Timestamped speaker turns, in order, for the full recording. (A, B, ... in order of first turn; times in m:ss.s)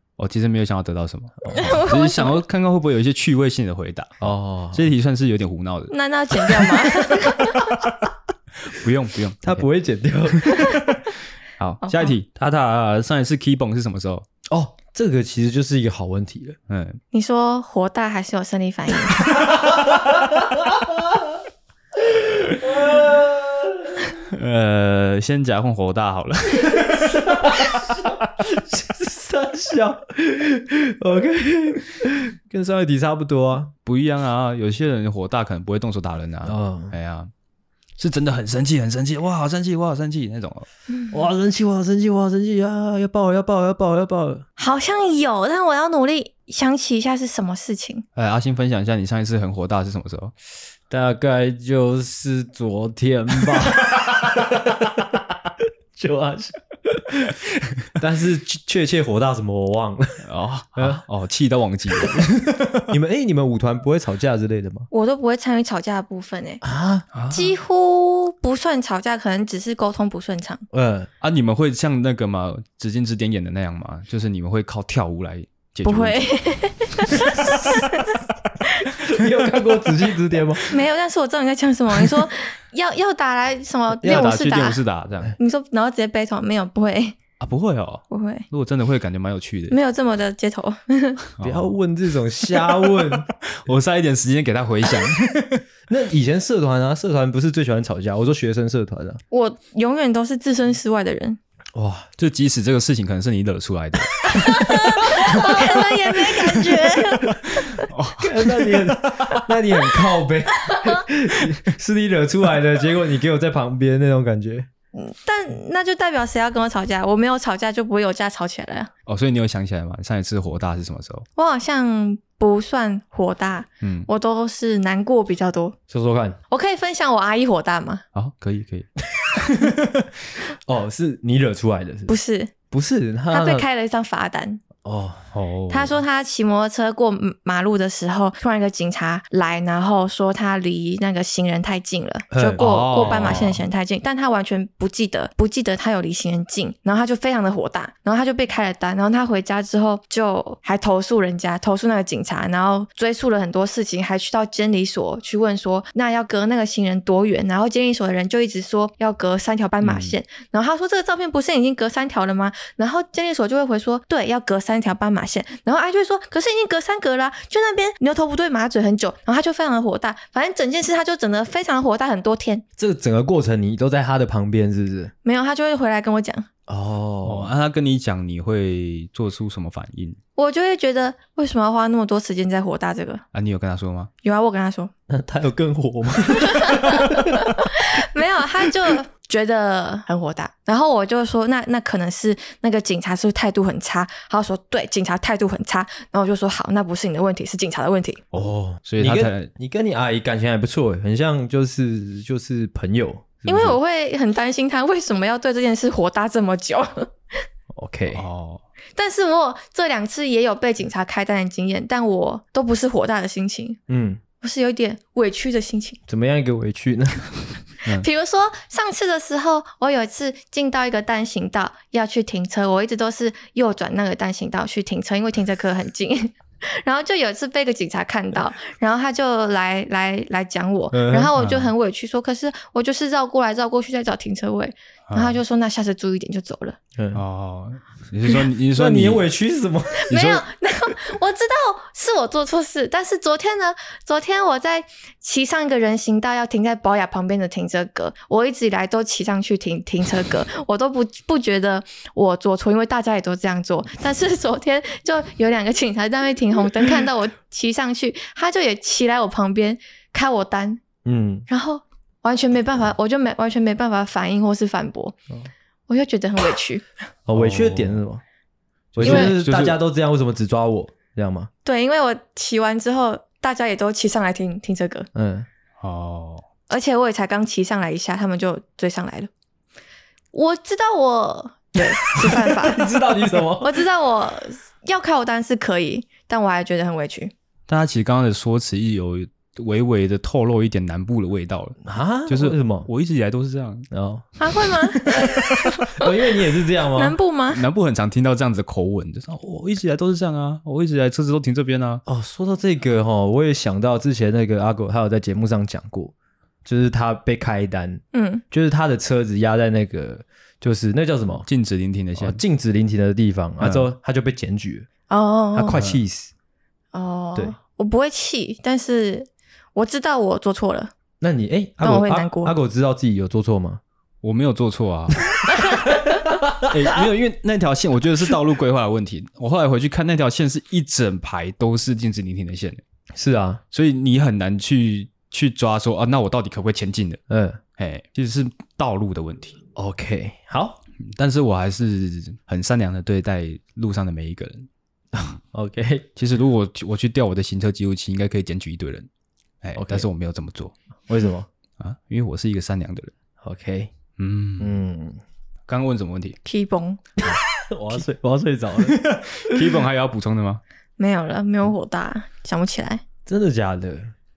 0:00.2-0:07.9 A
0:01.4-0:01.7 B
0:01.5-0:02.4 C
0:04.2-0:04.8 B
0:05.9-0:07.8 C
0:08.6-0:09.7 A
0:09.4-0:10.9 B
0:10.4-0:14.3 A
0:11.8-0:12.1 C
0:14.5-0:16.6 B
0:16.7-0:17.0 A
0:17.1-0:19.5 C
0:19.7-0:20.3 B
0:22.5-0:24.0 B
0:24.2-0:28.2 A
0:27.1-0:33.7 B
0:33.8-0:37.3 A
0:36.4-0:37.0 B
0:38.0-0:40.7 A
0:41.1-0:44.4 B
0:44.6-0:48.0 C
0:48.2-0:50.3 A
0:50.9-0:54.9 B
0:53.6-0:54.0 A
0:56.0-0:57.4 B
0:57.9-1:00.2 B
1:00.2-1:02.9 A
1:00.8-1:01.0 B
1:02.9-1:04.9 B
1:04.9-1:06.6 C
1:06.6-1:07.1 B
1:07.1-1:07.6 A
1:07.3-1:10.6 C
1:10.7-1:11.1 B
1:11.2-1:16.4 A
1:15.8-1:18.2 C
1:17.1-1:17.5 A
1:19.0-1:20.7 B
1:20.6-1:24.8 C
1:24.0-1:25.4 A
1:25.4-1:27.2 C
1:27.4-1:29.8 A
1:28.1-1:28.5 C
1:29.7-1:31.3 C
1:31.4-1:31.7 A
1:31.4-1:33.3 B
1:32.5-1:35.6 A
1:35.9-1:39.2 B
1:39.3-1:41.4 C
1:41.8-1:42.1 B
1:42.2-1:49.4 A
1:44.3-1:47.9 C
1:48.2-1:54.7 B
1:54.9-1:58.9 C
1:59.1-2:01.2 A
2:01.4-2:05.8 C
2:03.8-2:04.1 A
2:05.9-2:06.4 B
2:06.5-2:08.0 C
2:08.2-2:10.1 A
2:10.7-2:12.2 B
2:12.1-2:12.5 C
2:12.7-2:13.6 B
2:13.3-2:14.6 C
2:14.8-2:15.3 B
2:15.3-2:16.0 A
2:15.7-2:52.6 C
2:22.3-2:23.5 B
2:22.6-2:23.6 A
2:39.8-2:40.2 A
2:52.8-2:55.1 B
2:55.2-2:56.5 C
2:56.7-2:57.5 B
2:57.2-3:00.2 A
3:00.4-3:03.2 C
3:03.3-3:04.1 A
3:04.2-3:04.9 C
3:05.1-3:07.8 B
3:06.5-3:18.2 C
3:18.3-3:23.8 B
3:18.8-3:19.5 A
3:23.5-3:27.1 C
3:27.7-3:28.2 B
3:28.1-3:28.6 A
3:29.0-3:33.8 C
3:33.9-3:34.2 B
3:34.4-3:36.0 C
3:36.1-3:37.3 B
3:37.9-3:56.8 C
3:50.9-3:51.3 B
3:51.4-3:51.7 A
3:55.1-3:55.4 A
3:57.0-3:57.2 B
3:57.1-3:59.2 A
3:58.8-4:00.1 B
4:00.1-4:20.8 C
4:00.1-4:00.4 A
4:21.0-4:21.4 B
4:21.5-4:25.2 C
4:25.9-4:26.8 C
4:27.3-4:28.2 B
4:27.4-4:28.0 A
4:28.9-4:29.8 A
4:29.0-4:31.5 B
4:29.1-4:29.3 C
4:31.6-4:35.1 C
4:35.1-4:35.5 B
4:35.8-4:36.4 A
4:36.7-4:39.3 C
4:40.3-4:42.9 C
4:42.2-4:43.8 B
4:43.6-4:47.3 C
4:47.7-4:53.9 A
4:51.8-4:52.9 B
4:53.9-4:54.3 B
4:54.4-4:57.6 C
4:54.9-4:57.2 B
4:57.5-5:02.0 A
5:02.1-5:06.1 B
5:06.6-5:11.5 B
5:08.1-5:08.4 C
5:11.4-5:12.4 A
5:12.2-5:14.9 B
5:13.6-5:13.9 A
5:15.1-5:15.8 C
5:15.6-5:16.3 B
5:15.7-5:16.0 A
5:16.9-5:20.9 C
5:21.2-5:23.8 B
5:21.8-5:22.5 C
5:24.2-5:25.2 A
5:25.8-5:27.0 B
5:26.7-5:32.8 A
5:33.2-5:33.6 B
5:33.7-5:37.2 A
5:37.3-5:37.6 B
5:37.8-5:39.6 A
5:39.8-5:40.8 B
5:41.0-5:44.7 A
5:45.2-5:46.1 B
5:46.2-5:49.1 A
5:49.6-5:50.8 A
5:49.8-5:50.1 B
5:51.1-5:51.5 B
5:51.8-5:53.1 A
5:53.4-5:53.9 B
5:54.2-5:54.8 A
5:54.6-5:55.2 B
5:55.7-5:56.4 A
5:56.4-5:57.2 C
5:57.2-5:59.7 B
5:58.8-6:00.6 A
6:01.0-6:03.0 C
6:03.3-6:04.1 B